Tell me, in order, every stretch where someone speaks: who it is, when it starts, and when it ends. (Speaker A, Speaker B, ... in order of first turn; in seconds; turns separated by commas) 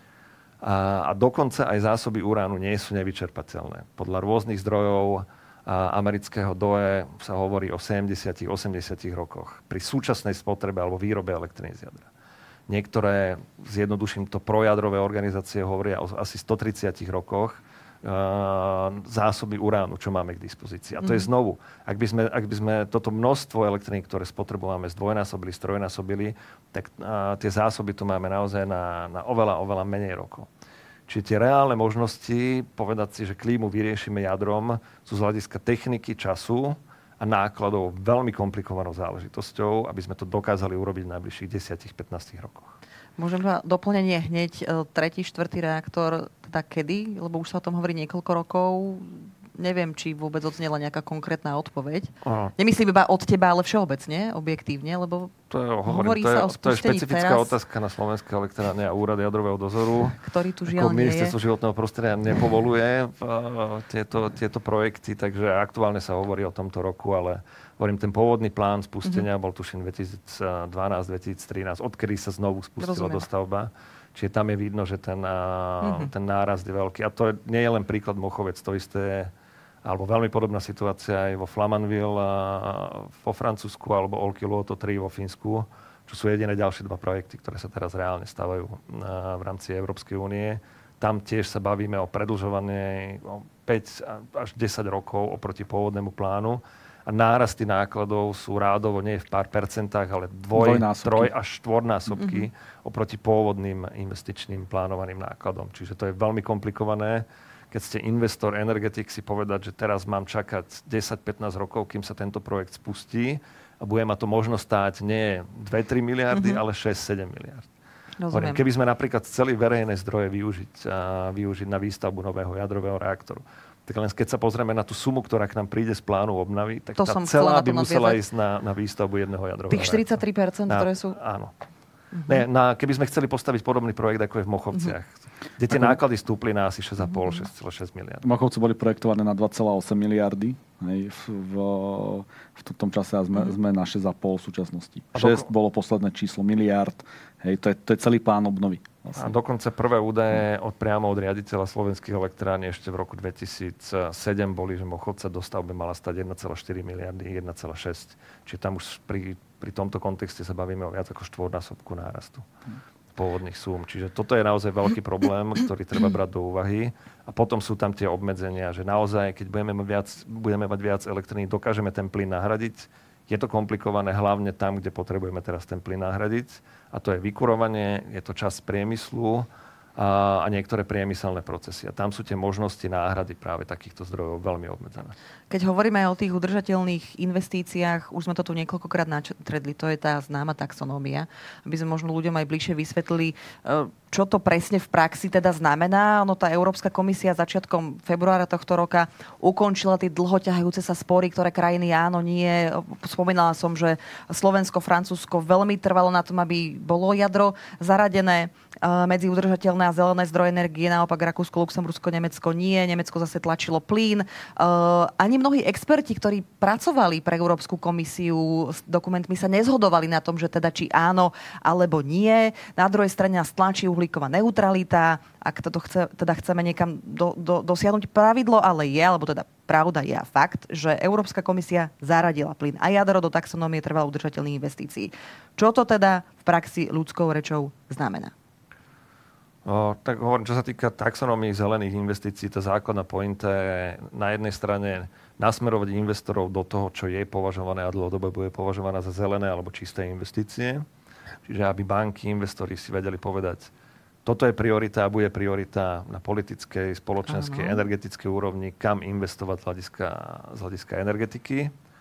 Speaker A: 0.6-12.1, Speaker A: 12.7-30.5, Speaker B: 21.0-21.3, Speaker A: 31.1-42.7, Speaker B: 43.2-55.3, Speaker A: 52.2-52.5, Speaker A: 55.5-79.3, Speaker B: 55.9-57.5, Speaker B: 60.2-61.3, Speaker B: 72.8-73.2, Speaker B: 75.8-76.1, Speaker A: 79.8-117.7, Speaker C: 100.5-101.3, Speaker B: 102.2-102.4, Speaker B: 116.3-116.6, Speaker B: 118.2-118.6, Speaker A: 118.3-130.1, Speaker B: 127.0-128.2, Speaker B: 129.7-131.2, Speaker A: 130.7-131.5, Speaker A: 132.3-138.2, Speaker C: 135.7-136.0, Speaker C: 138.2-149.3, Speaker A: 145.1-145.5, Speaker A: 149.2-162.5, Speaker A: 163.2-185.1, Speaker B: 185.5-238.3, Speaker A: 239.6-250.8, Speaker A: 251.4-253.7, Speaker A: 254.2-261.7, Speaker B: 257.3-257.8